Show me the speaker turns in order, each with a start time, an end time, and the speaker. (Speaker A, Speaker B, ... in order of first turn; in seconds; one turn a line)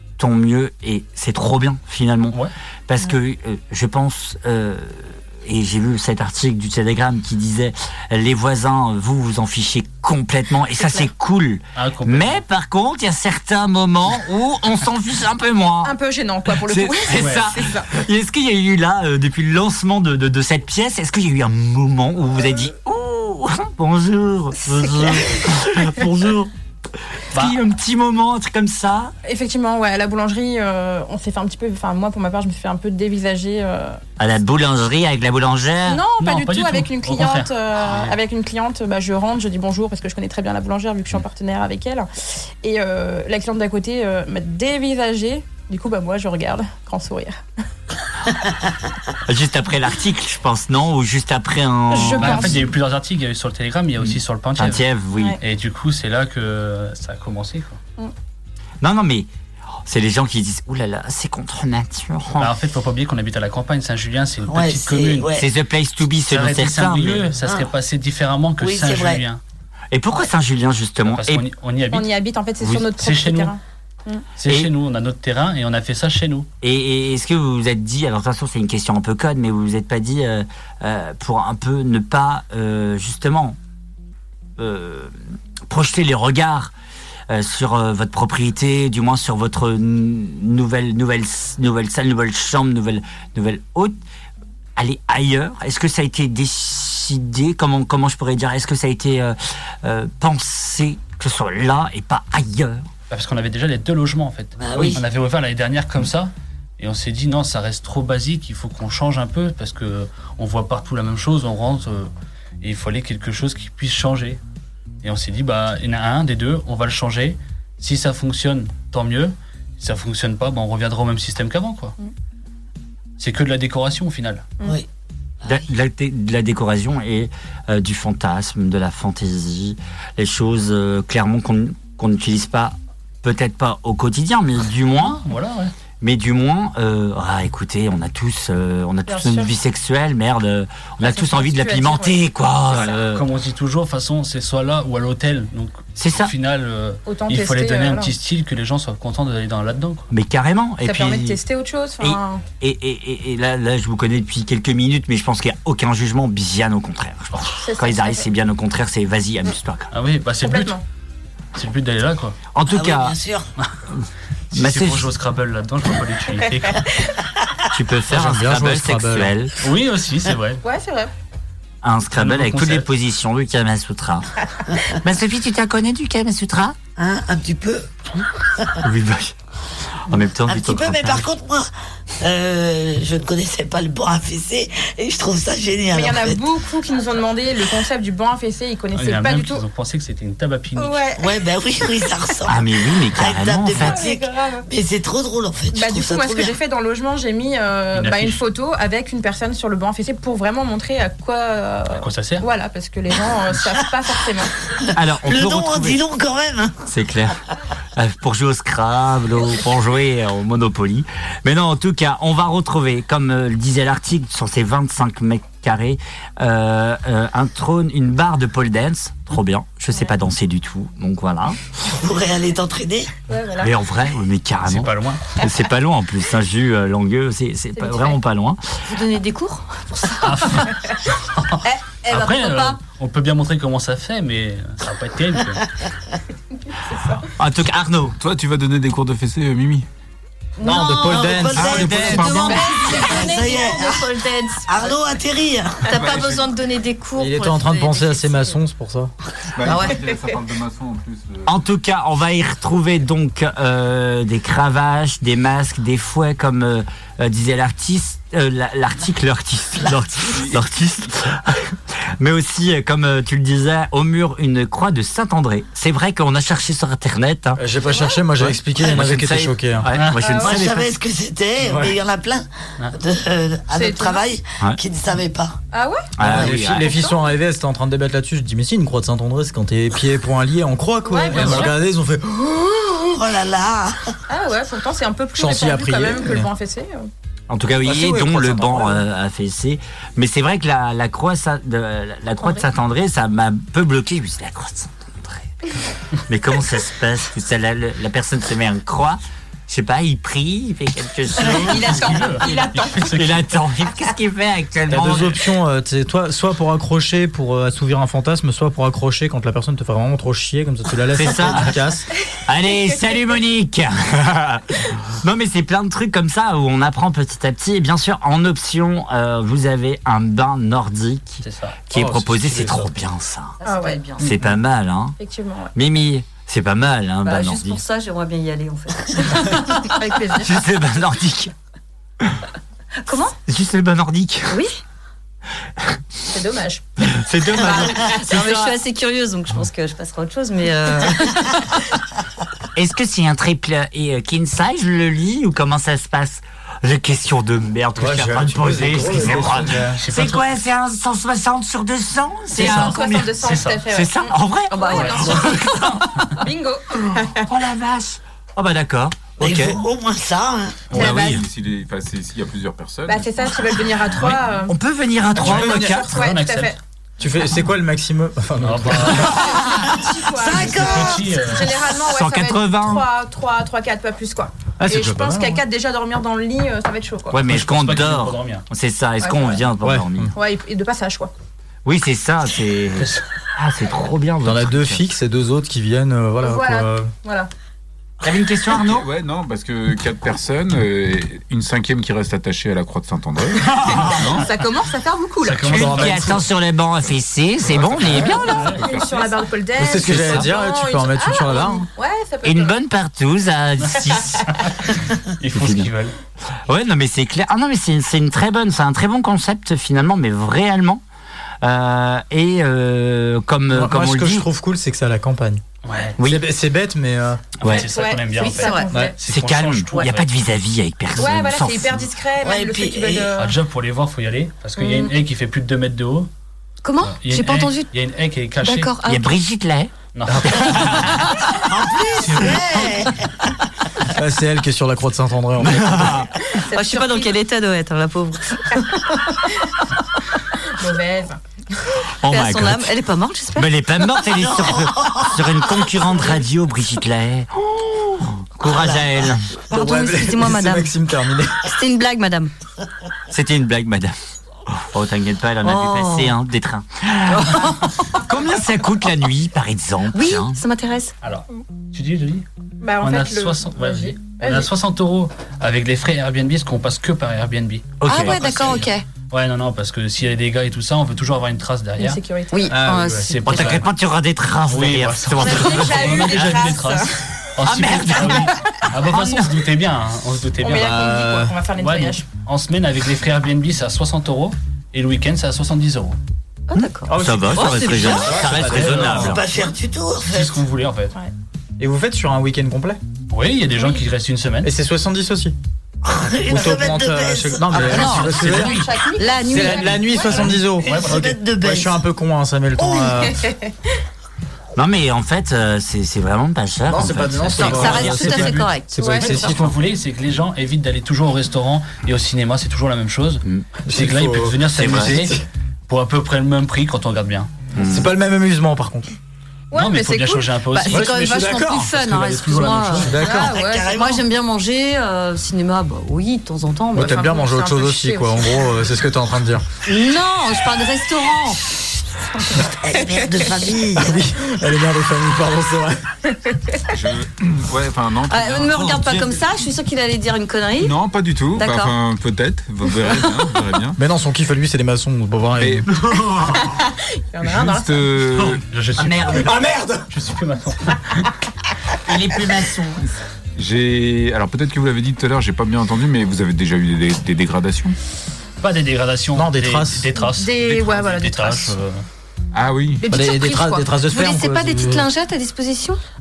Speaker A: 0.2-15.9
Speaker B: 10.8-11.1
Speaker C: 11.8-12.4
Speaker B: 15.8-17.9
Speaker A: 16.5-26.5
Speaker C: 17.2-17.5
Speaker A: 27.2-29.1
Speaker B: 29.2-34.0
Speaker A: 34.2-36.0
Speaker B: 35.9-42.1
Speaker C: 36.2-38.2
Speaker B: 42.6-47.4
Speaker A: 49.2-52.6
Speaker B: 51.9-52.7
Speaker C: 52.2-54.8
Speaker A: 54.6-55.4
Speaker C: 55.4-57.8
Speaker A: 58.8-59.3
Speaker A: 59.9-62.5
Speaker C: 62.4-65.3
Speaker D: 64.5-65.5
Speaker A: 65.4-67.3
Speaker C: 66.3-69.4
Speaker D: 68.6-69.2
Speaker A: 69.9-71.4
Speaker C: 71.0-73.5
Speaker B: 71.9-74.2
Speaker C: 74.4-76.5
Speaker A: 74.5-74.7
Speaker A: 76.6-83.6
Speaker A: 84.6-85.2
Speaker A: 85.7-86.7
Speaker A: 87.3-94.0
Speaker A: 94.8-102.9
Speaker C: 103.1-112.1
Speaker D: 104.6-105.0
Speaker C: 112.6-114.4
Speaker C: 115.0-122.0
Speaker C: 123.2-124.5
Speaker A: 125.5-135.2
Speaker C: 135.0-135.7
Speaker A: 136.0-143.2
Speaker B: 139.1-139.5
Speaker B: 141.0-142.2
Speaker C: 142.8-150.1
Speaker A: 146.0-146.3
Speaker B: 147.1-148.1
Speaker A: 150.1-151.4
Speaker B: 150.8-152.4
Speaker A: 152.0-159.9
Speaker B: 157.6-158.3
Speaker C: 159.9-160.8
Speaker B: 160.4-160.8
Speaker C: 161.5-162.4
Speaker A: 162.6-163.2
Speaker D: 162.7-163.5
Speaker A: 163.9-165.1
Speaker C: 164.5-166.9
Speaker A: 167.7-169.5
Speaker E: 168.1-169.3
Speaker C: 169.6-170.6
Speaker B: 170.6-171.1
Speaker A: 171.8-174.3
Speaker C: 172.2-172.9
Speaker A: 174.9-176.8
Speaker D: 177.0-178.7
Speaker A: 178.8-179.3
Speaker A: 180.1-181.2
Speaker D: 180.5-181.7
Speaker D: 182.2-186.5
Speaker B: 185.9-189.7
Speaker C: 188.9-191.0
Speaker B: 190.8-192.1
Speaker D: 191.2-192.6
Speaker A: 192.5-194.0
Speaker D: 193.1-196.6
Speaker B: 193.8-194.7
Speaker B: 195.7-204.5
Speaker C: 197.9-198.4
Speaker C: 201.9-202.4
Speaker A: 204.9-206.0
Speaker D: 205.2-206.8
Speaker A: 206.8-207.4
Speaker A: 207.9-221.6
Speaker D: 221.8-223.2
Speaker B: 223.3-223.7
Speaker A: 223.6-228.6
Speaker C: 224.7-225.2
Speaker B: 227.8-228.2
Speaker F: 228.9-230.5
Speaker C: 230.2-230.7
Speaker C: 231.3-235.7
Speaker F: 232.1-232.8
Speaker B: 236.7-237.2
Speaker A: 237.2-238.2
Speaker G: 238.2-239.9
Speaker F: 240.6-245.0
Speaker E: 240.6-242.5
Speaker D: 240.7-244.1
Speaker G: 241.6-242.7
Speaker A: 241.6-242.7
Speaker B: 242.5-243.5
Speaker D: 244.7-245.9
Speaker F: 245.9-248.6
Speaker G: 245.9-246.6
Speaker E: 247.2-249.1
Speaker G: 249.5-251.6
Speaker F: 249.6-250.1
Speaker A: 251.5-267.6
Speaker G: 260.3-260.6
Speaker E: 267.6-269.9
Speaker B: 267.9-268.2
Speaker A: 268.8-270.9
Speaker C: 269.9-270.2
Speaker B: 270.2-270.6
Speaker D: 270.3-275.6
Speaker E: 271.6-271.9
Speaker B: 273.7-274.2
Speaker B: 275.7-277.2
Speaker A: 276.2-277.0
Speaker E: 276.2-283.3
Speaker B: 281.1-281.8
Speaker C: 281.3-281.8
Speaker D: 283.2-284.1
Speaker B: 284.3-287.1
Speaker E: 285.3-286.5
Speaker A: 287.5-305.4
Speaker E: 287.8-289.1
Speaker B: 301.4-303.2
Speaker C: 301.4-303.5
Speaker E: 304.9-312.1
Speaker A: 311.1-311.8
Speaker A: 312.4-323.6
Speaker C: 321.4-321.8
Speaker E: 321.9-322.9
Speaker F: 323.6-324.4
Speaker B: 323.6-324.0
Speaker A: 324.2-325.2
Speaker B: 325.2-325.7
Speaker A: 325.8-327.8
Speaker F: 327.2-329.8
Speaker A: 329.4-331.5
Speaker B: 329.8-330.6
Speaker F: 333.0-333.4
Speaker A: 333.5-334.6
Speaker F: 334.5-334.8
Speaker B: 336.3-336.8
Speaker A: 337.0-338.7
Speaker B: 337.6-338.5
Speaker F: 337.7-341.8
Speaker A: 342.8-356.2
Speaker E: 348.0-350.0
Speaker C: 349.9-350.4
Speaker B: 352.5-357.5
Speaker C: 352.6-353.9
Speaker F: 354.7-356.0
Speaker C: 354.9-355.4
Speaker A: 357.3-359.8
Speaker D: 359.4-361.0
Speaker G: 360.9-363.6
Speaker C: 360.9-361.3
Speaker A: 360.9-361.4
Speaker B: 363.1-364.7
Speaker C: 364.2-364.5
Speaker A: 364.7-366.1
Speaker B: 365.4-366.8
Speaker E: 365.4-366.1
Speaker C: 366.1-366.8
Speaker E: 367.2-369.5
Speaker C: 368.6-369.8
Speaker B: 369.1-377.4
Speaker D: 370.4-371.3
Speaker C: 370.4-371.8
Speaker A: 371.9-373.1
Speaker E: 374.8-375.6
Speaker A: 377.3-380.3
Speaker C: 377.4-378.6
Speaker B: 379.2-379.6
Speaker E: 379.8-380.3
Speaker B: 380.3-381.3
Speaker A: 381.9-385.1
Speaker C: 383.0-383.2
Speaker E: 384.4-387.1
Speaker B: 386.4-387.5
Speaker A: 388.2-389.1
Speaker G: 388.7-394.5
Speaker A: 393.9-394.2
Speaker B: 394.2-396.1
Speaker C: 395.4-396.4
Speaker A: 395.7-398.6
Speaker E: 395.7-396.2
Speaker G: 397.6-399.4
Speaker B: 398.1-402.8
Speaker C: 398.3-398.8
Speaker E: 399.8-401.9
Speaker A: 399.9-400.5
Speaker A: 402.4-404.6
Speaker C: 405.2-406.2
Speaker A: 405.5-405.9
Speaker A: 406.7-411.0
Speaker A: 411.6-414.5
Speaker E: 413.7-415.6
Speaker C: 415.8-416.2
Speaker A: 416.2-416.4
Speaker E: 416.2-417.4
Speaker A: 417.6-417.9
Speaker C: 417.7-420.3
Speaker B: 417.7-419.1
Speaker F: 418.4-419.0
Speaker A: 419.3-422.1
Speaker B: 421.2-423.6
Speaker D: 422.4-423.3
Speaker C: 423.4-426.3
Speaker F: 424.8-425.1
Speaker F: 426.8-427.9
Speaker C: 427.1-428.9
Speaker F: 428.6-429.3
Speaker A: 429.1-431.4
Speaker C: 430.1-431.4
Speaker D: 431.7-433.3
Speaker C: 432.2-432.7
Speaker E: 434.1-436.3
Speaker B: 436.5-437.3
Speaker F: 436.7-439.2
Speaker B: 440.7-441.4
Speaker A: 442.2-442.9
Speaker F: 442.2-443.7
Speaker A: 443.6-449.6
Speaker D: 444.3-445.5
Speaker D: 448.7-449.1
Speaker E: 449.7-451.7
Speaker F: 449.7-450.9
Speaker F: 451.6-452.5
Speaker A: 453.3-454.2
Speaker A: 454.7-460.6
Speaker F: 455.6-456.4
Speaker F: 457.4-458.1
Speaker F: 460.1-461.1
Speaker C: 461.2-462.5
Speaker B: 462.8-464.7
Speaker C: 463.0-468.1
Speaker A: 468.0-468.8
Speaker F: 468.0-469.1
Speaker D: 468.4-468.7
Speaker C: 469.3-472.2
Speaker B: 472.0-472.8
Speaker F: 472.5-473.8
Speaker E: 472.7-473.4
Speaker C: 473.1-473.9
Speaker A: 473.4-476.5
Speaker C: 474.7-481.1
Speaker B: 475.4-477.2
Speaker F: 475.8-476.2
Speaker A: 477.6-479.5
Speaker B: 480.6-482.2
Speaker E: 480.7-481.6
Speaker C: 481.8-486.2
Speaker F: 486.7-488.6
Speaker A: 486.8-489.4
Speaker E: 487.1-489.4
Speaker D: 488.6-490.6
Speaker C: 490.2-491.2
Speaker E: 491.8-493.0
Speaker C: 493.3-494.7
Speaker E: 494.6-495.6
Speaker D: 496.0-498.3
Speaker E: 496.5-498.8
Speaker F: 497.8-500.1
Speaker B: 498.0-500.7
Speaker A: 498.3-498.8
Speaker E: 499.4-503.4
Speaker C: 500.2-501.3
Speaker D: 500.9-502.0
Speaker B: 502.8-503.7
Speaker A: 504.8-508.5
Speaker E: 506.9-509.7
Speaker F: 507.6-509.4
Speaker B: 509.0-509.4
Speaker C: 509.1-515.4
Speaker E: 513.9-515.5
Speaker A: 514.7-515.3
Speaker C: 515.9-517.5
Speaker A: 517.8-518.1
Speaker E: 517.8-519.1
Speaker B: 519.7-521.0
Speaker C: 519.7-521.5
Speaker F: 520.9-523.3
Speaker E: 520.9-523.6
Speaker C: 522.1-523.2
Speaker B: 523.1-523.9
Speaker D: 523.3-524.2
Speaker F: 523.8-527.2
Speaker B: 526.9-528.8
Speaker E: 526.9-529.7
Speaker F: 529.9-531.7
Speaker D: 532.6-534.2
Speaker E: 533.9-536.1
Speaker G: 536.9-539.2
Speaker F: 538.3-541.0
Speaker G: 540.8-544.0
Speaker F: 541.5-541.9
Speaker E: 544.0-545.9
Speaker G: 545.6-546.7
Speaker B: 546.6-548.2
Speaker G: 547.4-548.6
Speaker C: 548.7-549.5
Speaker A: 549.0-549.6
Speaker E: 549.3-550.1
Speaker C: 550.1-551.3
Speaker A: 552.0-553.1
Speaker G: 553.6-558.0
Speaker C: 558.6-562.0
Speaker E: 559.4-560.2
Speaker B: 560.3-561.8
Speaker G: 562.5-563.1
Speaker B: 563.0-563.9
Speaker E: 563.1-565.1
Speaker F: 564.0-566.0